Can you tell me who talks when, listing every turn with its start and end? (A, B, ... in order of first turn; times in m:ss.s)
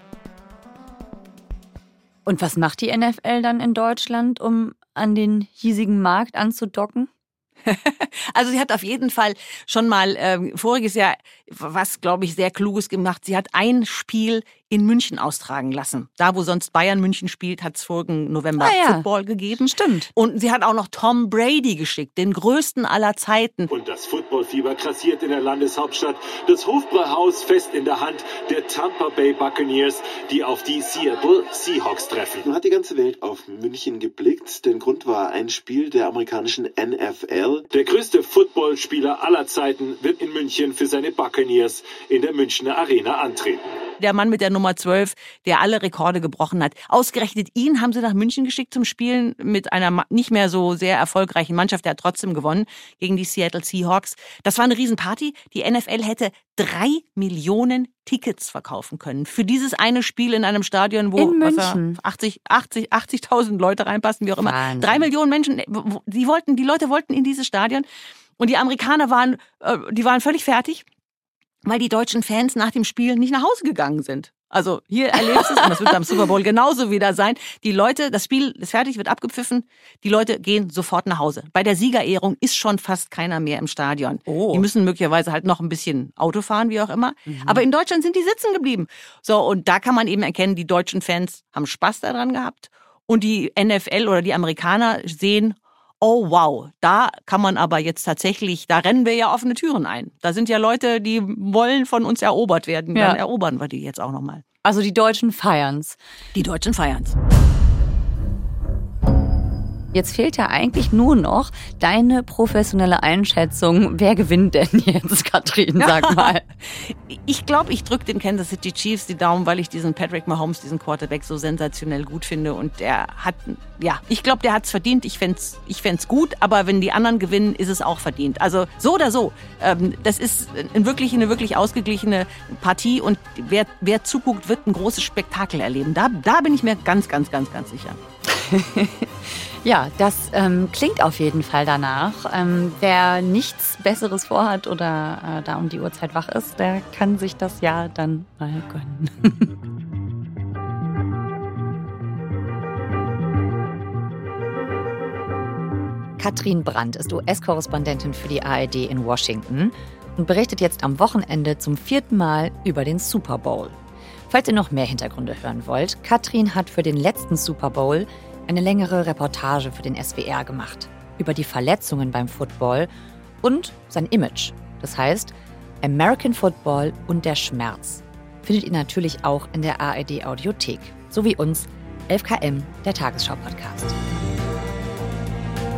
0:02.2-0:07.1 A
0:07.6-0:23.7 B
0:18.6-0:19.0 A
0:19.6-0:20.1 A
0:23.7-0:32.5 C
0:32.4-0:37.7 D
0:37.7-0:43.8 C
0:44.0-1:07.8 B
1:01.2-1:02.0 A
1:04.4-1:05.1 A
1:08.4-1:10.8 B
1:11.6-1:44.4 B
1:15.1-1:16.3 A
1:24.3-1:24.6 A
1:27.3-1:27.6 A
1:44.6-1:46.0 A
1:46.3-1:47.2 B
1:49.9-1:56.4 A
1:55.8-2:18.0 B
2:18.2-2:29.5 A
2:36.2-2:43.8 A
2:44.3-2:52.9 A
2:53.4-3:04.0 A